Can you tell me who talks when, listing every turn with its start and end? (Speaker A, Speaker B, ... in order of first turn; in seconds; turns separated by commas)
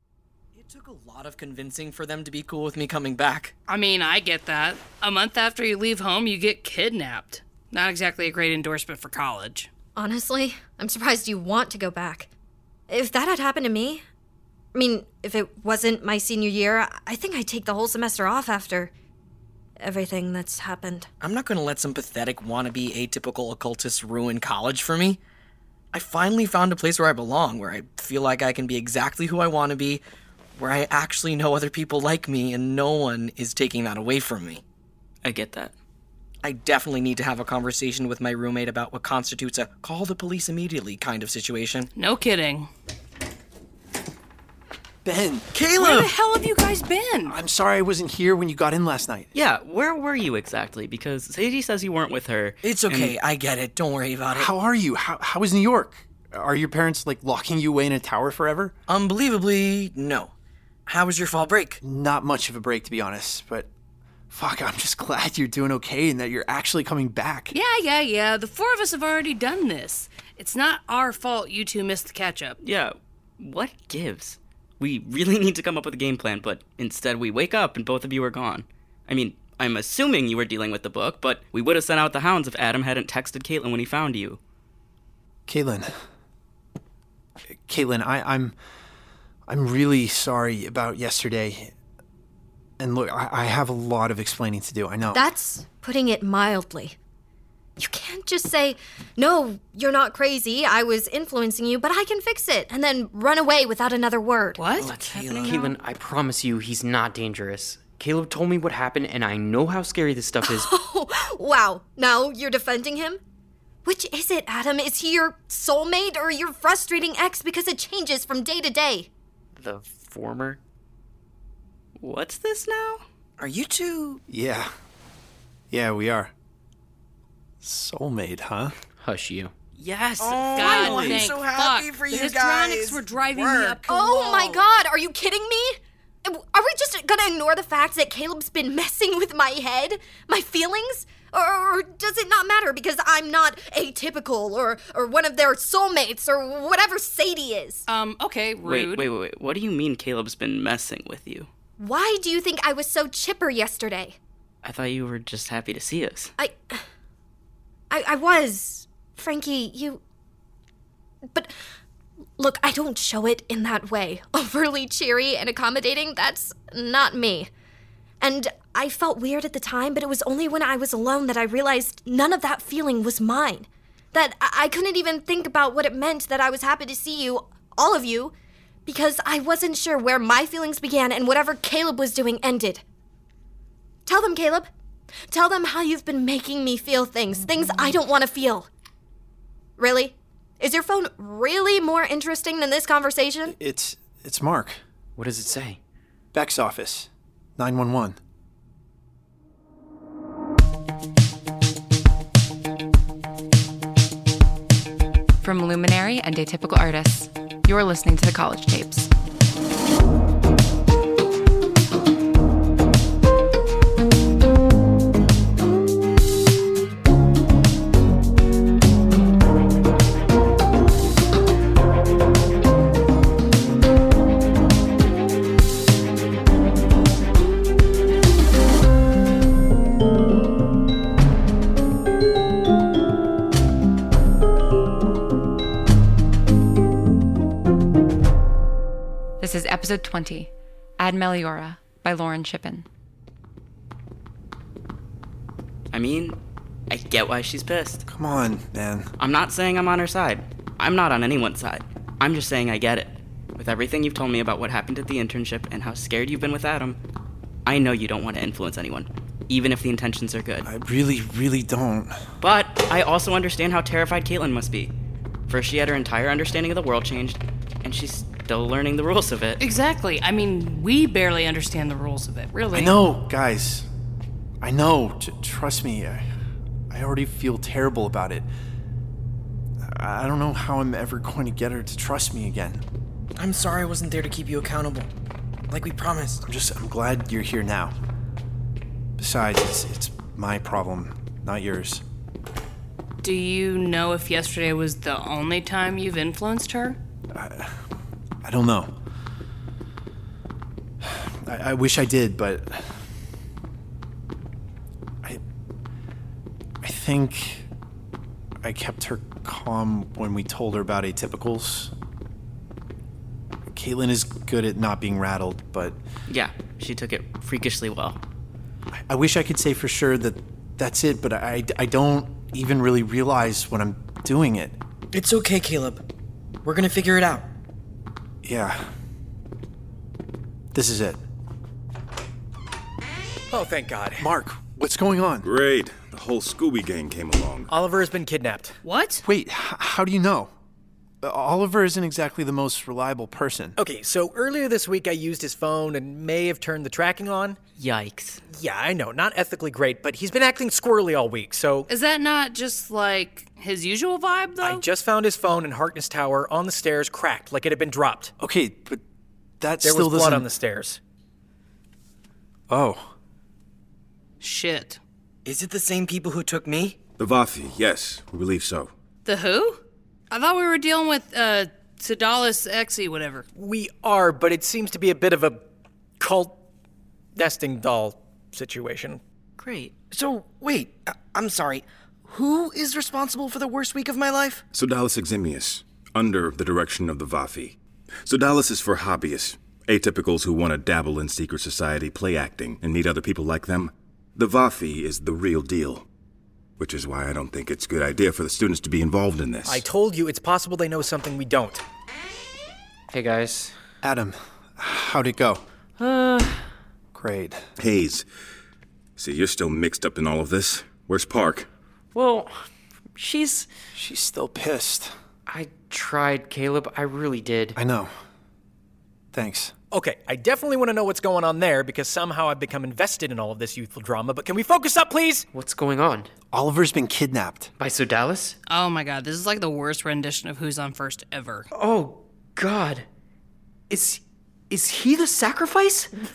Speaker A: 0.6-3.5, Speaker B: 3.7-9.7, Speaker C: 10.0-12.3, Speaker C: 12.9-14.0, Speaker C: 14.7-18.9, Speaker C: 19.8-21.1, Speaker A: 21.2-25.2, Speaker A: 25.9-30.0, Speaker A: 30.6-34.6, Speaker D: 35.2-35.7, Speaker A: 36.4-41.9, Speaker B: 42.0-42.7, Speaker E: 45.0-45.5, Speaker A: 45.5-46.1, Speaker B: 45.8-47.4, Speaker E: 47.2-49.3, Speaker D: 49.3-53.1, Speaker A: 52.6-54.5, Speaker E: 54.3-58.7, Speaker A: 58.9-60.3, Speaker A: 60.9-61.8, Speaker E: 61.8-63.7, Speaker E: 64.3-67.6, Speaker B: 67.5-72.6, Speaker D: 72.6-84.4, Speaker E: 85.5-85.9, Speaker E: 87.5-88.5, Speaker E: 89.5-91.7, Speaker E: 92.8-95.2, Speaker C: 95.1-97.0, Speaker C: 97.8-104.7, Speaker B: 104.6-105.8, Speaker A: 104.8-105.7, Speaker D: 104.8-105.6, Speaker F: 105.5-110.7, Speaker C: 110.4-113.2, Speaker C: 113.8-119.1, Speaker F: 119.5-120.6, Speaker D: 122.0-123.0, Speaker A: 123.4-124.2, Speaker E: 124.3-124.7, Speaker E: 125.7-126.3, Speaker E: 127.6-128.8, Speaker F: 129.0-129.5, Speaker B: 129.8-134.6, Speaker A: 130.2-134.6, Speaker D: 130.6-131.2, Speaker C: 133.9-147.8, Speaker B: 147.9-149.1, Speaker D: 148.6-151.5, Speaker C: 151.8-154.2, Speaker D: 154.6-156.3, Speaker C: 156.4-156.8, Speaker C: 157.9-160.0, Speaker C: 162.4-167.5, Speaker C: 168.2-178.3, Speaker C: 178.9-182.8, Speaker C: 184.1-184.7, Speaker C: 185.3-188.7, Speaker C: 189.8-193.6, Speaker E: 193.4-194.8, Speaker F: 195.2-195.8, Speaker E: 196.3-198.2, Speaker G: 205.4-209.1, Speaker G: 239.4-242.9, Speaker D: 245.9-246.4, Speaker D: 246.9-248.1, Speaker E: 248.1-249.1, Speaker D: 249.2-257.0, Speaker D: 257.6-260.7, Speaker E: 260.6-262.2, Speaker D: 262.4-264.9, Speaker D: 265.5-269.6, Speaker B: 269.6-273.0, Speaker E: 272.7-273.9, Speaker E: 274.6-276.3, Speaker E: 276.9-278.5, Speaker E: 279.8-282.8, Speaker A: 283.4-285.1, Speaker A: 285.7-286.4, Speaker E: 286.4-287.9, Speaker E: 289.2-292.0, Speaker B: 293.2-297.0, Speaker E: 297.3-297.7, Speaker E: 298.4-298.9, Speaker E: 301.0-302.9, Speaker E: 306.8-307.7, Speaker E: 308.6-311.9, Speaker E: 313.7-316.0, Speaker D: 316.3-318.2, Speaker E: 318.9-324.8, Speaker A: 325.1-326.0, Speaker A: 326.6-327.5, Speaker E: 328.4-328.9, Speaker E: 330.7-331.2, Speaker H: 333.5-334.3, Speaker E: 334.2-335.5, Speaker I: 335.4-337.7, Speaker H: 337.7-338.8, Speaker B: 338.8-339.2, Speaker E: 339.2-340.5, Speaker E: 341.2-343.8, Speaker H: 343.8-347.6, Speaker D: 347.8-348.4, Speaker H: 348.5-351.9, Speaker B: 351.9-354.8, Speaker H: 354.6-358.3, Speaker E: 358.4-359.0, Speaker E: 359.6-360.5, Speaker H: 359.8-361.0, Speaker E: 362.7-363.1, Speaker B: 364.4-365.0, Speaker A: 365.4-367.0, Speaker I: 367.2-368.9, Speaker B: 369.2-373.4, Speaker H: 373.6-375.6, Speaker H: 376.2-376.6, Speaker H: 377.4-379.2, Speaker D: 379.6-379.9, Speaker A: 380.1-384.6, Speaker I: 384.7-396.1, Speaker I: 396.8-399.8, Speaker H: 399.6-401.8, Speaker F: 403.1-403.8, Speaker E: 404.0-405.6, Speaker F: 406.0-406.7, Speaker E: 407.1-407.6, Speaker I: 407.8-408.2, Speaker I: 409.2-411.7, Speaker F: 412.1-412.6, Speaker F: 413.2-413.7, Speaker E: 413.9-415.1, Speaker F: 415.5-417.8, Speaker E: 417.8-418.1, Speaker E: 419.3-419.7, Speaker H: 419.9-425.5, Speaker F: 425.5-426.3, Speaker E: 426.5-427.7, Speaker F: 427.8-428.6, Speaker B: 428.7-431.7, Speaker F: 431.7-433.1, Speaker F: 433.9-436.1